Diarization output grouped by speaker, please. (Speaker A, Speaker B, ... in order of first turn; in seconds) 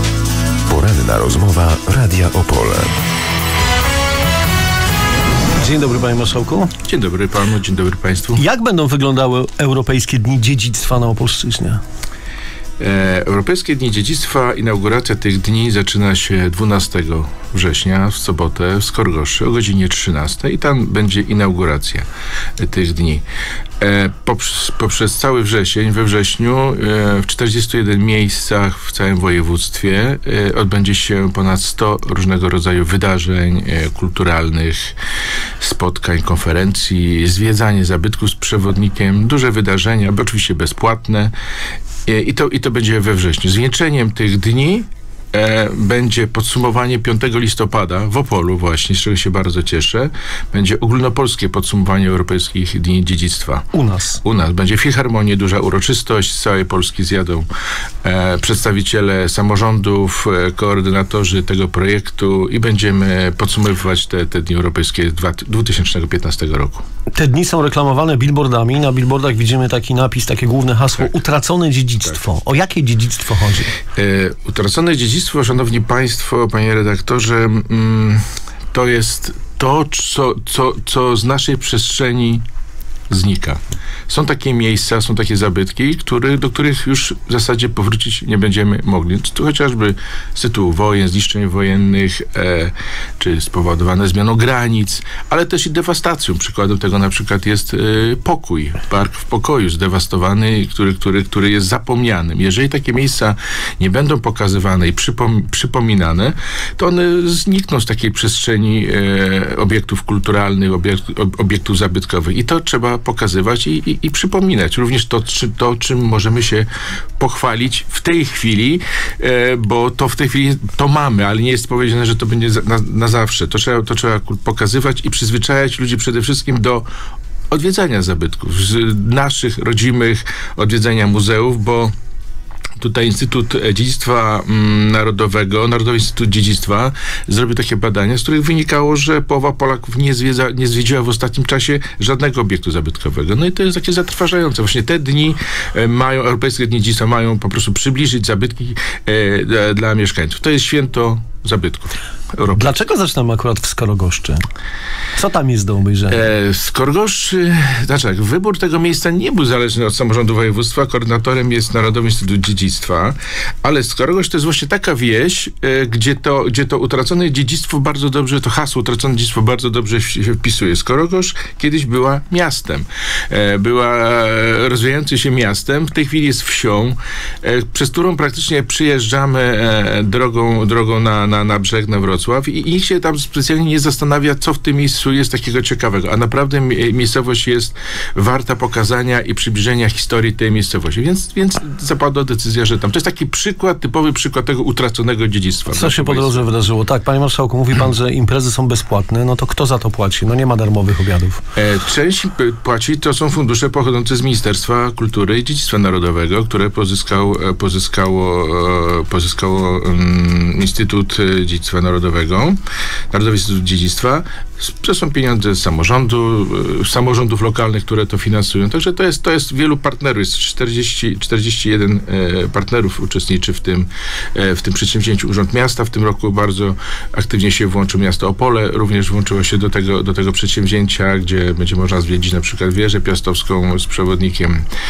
Speaker A: 0.7-3.0
Speaker B: 5.6-6.7, 8.3-11.8, 53.7-54.2, 67.1-73.7, 152.5-154.4, 155.2-156.2, 195.7-201.4
Speaker C: 6.8-8.4, 12.8-22.1, 22.6-23.2, 23.8-34.9, 35.6-41.3, 42.0-53.7, 54.2-57.5, 58.0-66.8, 74.0-82.4, 83.1-116.7, 117.2-126.9, 127.5-131.9, 132.8-152.8, 156.1-196.4, 201.6-212.6, 213.1-234.6